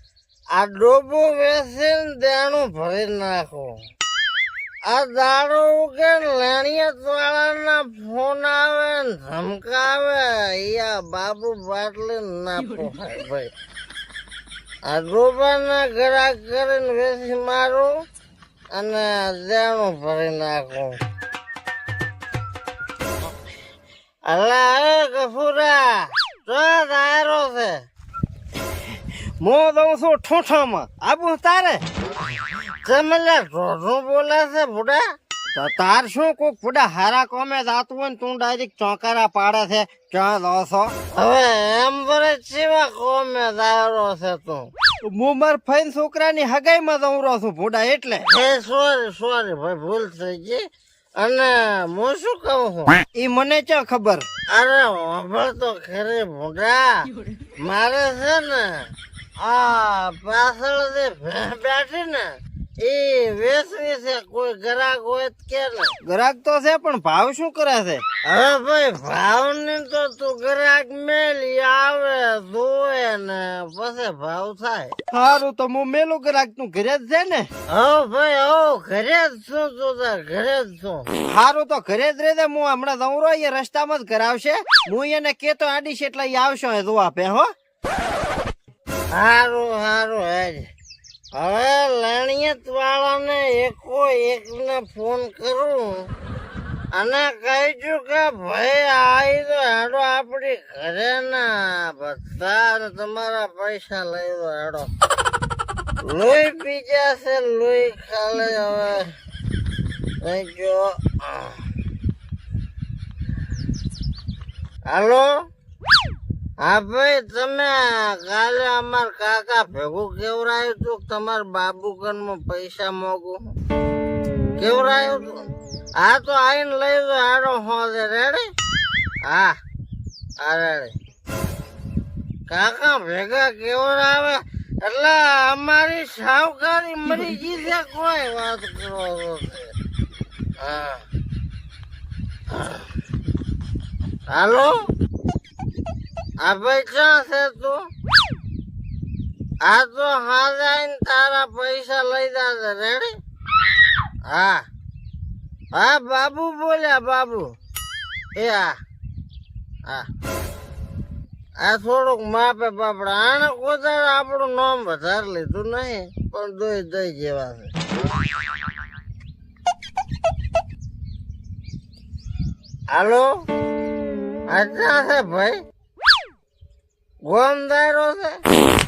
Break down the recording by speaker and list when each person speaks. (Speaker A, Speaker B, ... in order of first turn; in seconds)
Speaker A: 0.6-3.8, 4.9-13.5, 14.9-17.9, 18.7-21.0, 24.3-27.8, 32.8-35.0, 41.1-44.7, 48.3-50.7, 51.2-53.0, 54.5-57.0, 57.6-58.9, 59.4-62.3, 62.8-65.9, 68.3-74.9, 77.7-81.1, 89.1-90.7, 91.4-96.1, 96.9-104.9, 106.1-109.1, 110.2-111.5, 114.9-115.3, 116.6-123.5, 124.6-125.5, 126.0-128.5, 129.3-129.6, 130.4-130.9, 132.5-139.7, 140.6-141.0, 142.5-142.8, 144.3-144.8, 146.4-147.8, 149.6-153.1, 154.3-154.6, 155.7-157.5, 158.4-158.8, 161.6-167.7, 172.9-173.3, 174.5-175.6, 177.2-178.4
Speaker B: 29.4-31.8, 35.5-40.9, 45.0-48.2, 53.1-54.2, 66.0-68.0, 75.1-77.5, 81.2-87.5